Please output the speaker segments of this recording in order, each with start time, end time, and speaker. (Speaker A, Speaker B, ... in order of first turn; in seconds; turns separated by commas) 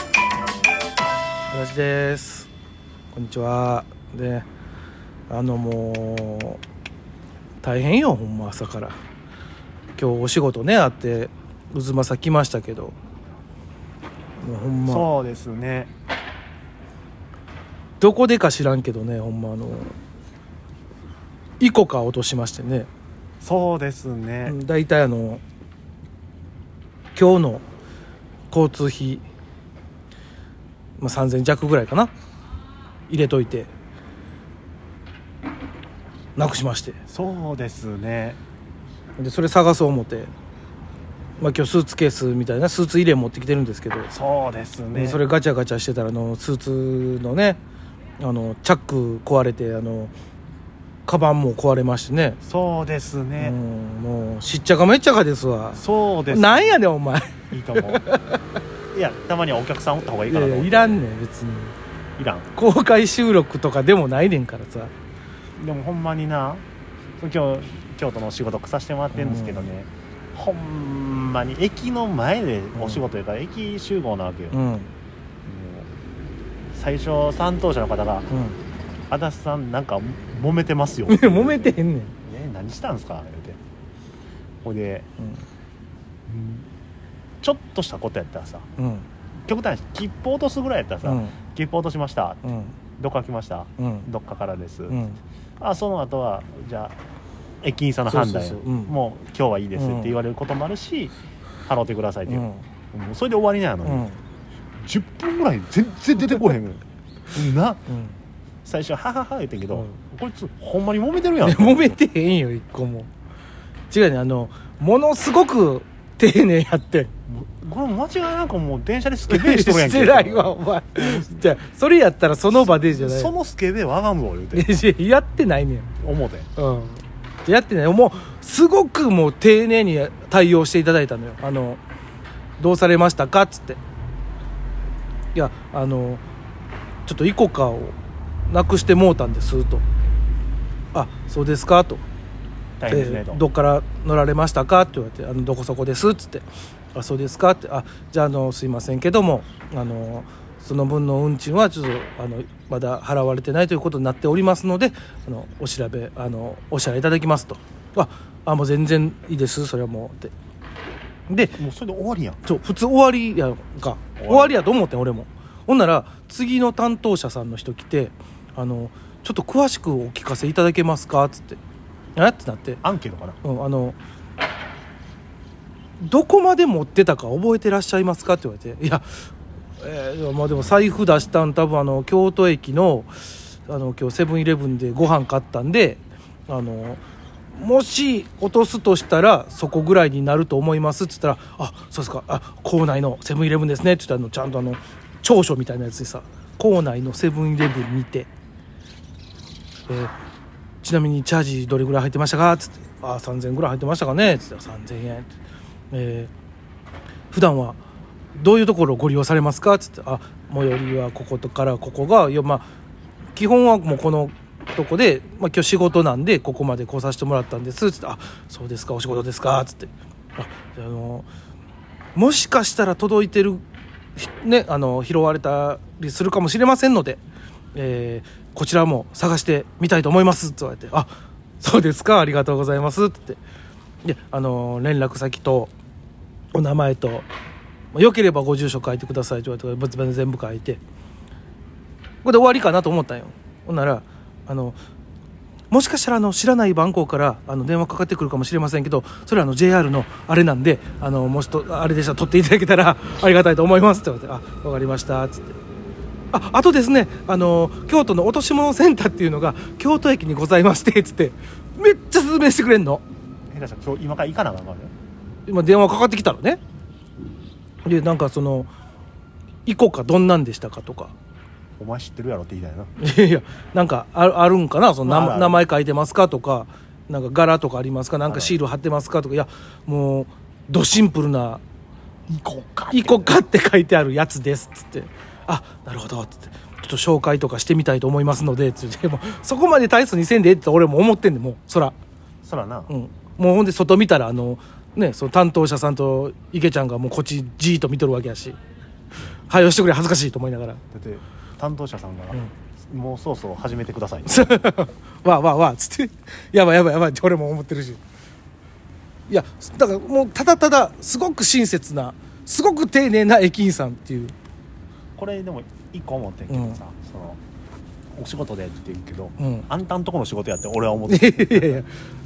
Speaker A: 1.5-2.5, Speaker A: 3.1-4.5, Speaker A: 5.3-6.6, Speaker A: 7.6-9.0, Speaker A: 10.0-12.9, Speaker A: 14.4-15.1, Speaker B: 14.8-15.9, Speaker A: 18.0-19.9, Speaker A: 21.6-22.9, Speaker B: 23.4-24.6, Speaker A: 24.5-25.4, Speaker A: 27.1-27.6, Speaker A: 28.5-29.2, Speaker A: 31.0-32.1, Speaker A: 33.1-33.7, Speaker A: 36.4-37.0, Speaker B: 37.1-38.4, Speaker A: 39.2-40.3, Speaker A: 41.4-44.1, Speaker B: 44.1-45.2, Speaker A: 44.9-47.6, Speaker A: 48.2-50.1, Speaker A: 51.0-52.4, Speaker B: 52.4-53.5, Speaker A: 53.4-58.4, Speaker B: 55.7-56.8, Speaker B: 57.5-58.1, Speaker B: 58.9-61.0, Speaker A: 60.3-61.7, Speaker B: 62.2-62.5, Speaker A: 62.5-64.9, Speaker B: 65.6-66.6, Speaker B: 67.2-74.6, Speaker A: 69.1-69.7, Speaker A: 72.8-73.0, Speaker A: 74.5-74.9, Speaker B: 75.4-75.9, Speaker B: 76.7-78.3, Speaker A: 78.3-78.6, Speaker B: 79.1-83.6, Speaker A: 81.1-82.2, Speaker B: 84.6-85.1, Speaker B: 86.3-86.7, Speaker B: 87.4-88.7, Speaker A: 88.8-89.1, Speaker B: 89.5-92.4, Speaker A: 91.0-91.3, Speaker A: 92.4-92.7, Speaker B: 93.0-95.0, Speaker A: 93.8-94.1, Speaker A: 94.9-95.2, Speaker B: 95.6-97.0, Speaker B: 97.6-101.1, Speaker A: 98.1-98.9, Speaker A: 99.8-100.2, Speaker B: 101.7-104.1, Speaker A: 102.3-102.6, Speaker A: 103.8-104.2, Speaker B: 104.8-107.8, Speaker A: 107.9-108.2, Speaker B: 108.6-112.0, Speaker A: 111.4-113.1, Speaker A: 113.9-117.1, Speaker B: 117.3-121.5, Speaker A: 119.3-123.3, Speaker B: 122.5-124.7, Speaker A: 124.5-125.9, Speaker B: 126.0-126.5, Speaker A: 126.5-131.8, Speaker A: 132.6-133.8, Speaker A: 135.3-136.2, Speaker A: 137.1-137.9, Speaker A: 138.5-139.8, Speaker A: 140.9-142.0, Speaker B: 142.8-143.4, Speaker A: 142.9-160.3, Speaker A: 161.3-161.6, Speaker B: 161.5-162.4, Speaker A: 162.4-171.6, Speaker B: 164.2-164.6, Speaker A: 172.2-172.8, Speaker B: 172.8-173.4, Speaker A: 173.4-174.0, Speaker A: 176.0-179.1, Speaker A: 179.8-198.3, Speaker A: 199.9-200.1, Speaker A: 200.8-205.3, Speaker A: 205.9-206.3, Speaker A: 207.3-207.8, Speaker A: 208.3-212.7, Speaker A: 213.3-221.3, Speaker A: 222.1-223.6, Speaker A: 224.2-227.2, Speaker A: 227.7-231.1, Speaker A: 231.6-233.4, Speaker A: 234.0-235.7, Speaker A: 236.5-237.3, Speaker A: 237.9-240.8, Speaker A: 242.2-244.8, Speaker A: 245.7-255.6, Speaker A: 256.3-263.0, Speaker B: 263.5-264.9, Speaker A: 265.5-266.6, Speaker A: 267.8-268.7, Speaker A: 269.6-271.1, Speaker B: 271.8-272.9, Speaker A: 273.0-281.6, Speaker B: 275.0-275.6, Speaker B: 278.3-278.6, Speaker B: 282.3-283.4, Speaker A: 282.9-291.9, Speaker B: 292.4-292.9, Speaker A: 292.9-298.6, Speaker A: 299.5-300.8, Speaker B: 300.9-304.5, Speaker A: 304.3-308.0, Speaker A: 309.3-314.3, Speaker B: 315.1-317.4, Speaker A: 316.5-316.8, Speaker B: 318.1-321.8, Speaker A: 319.4-319.6, Speaker A: 321.1-321.9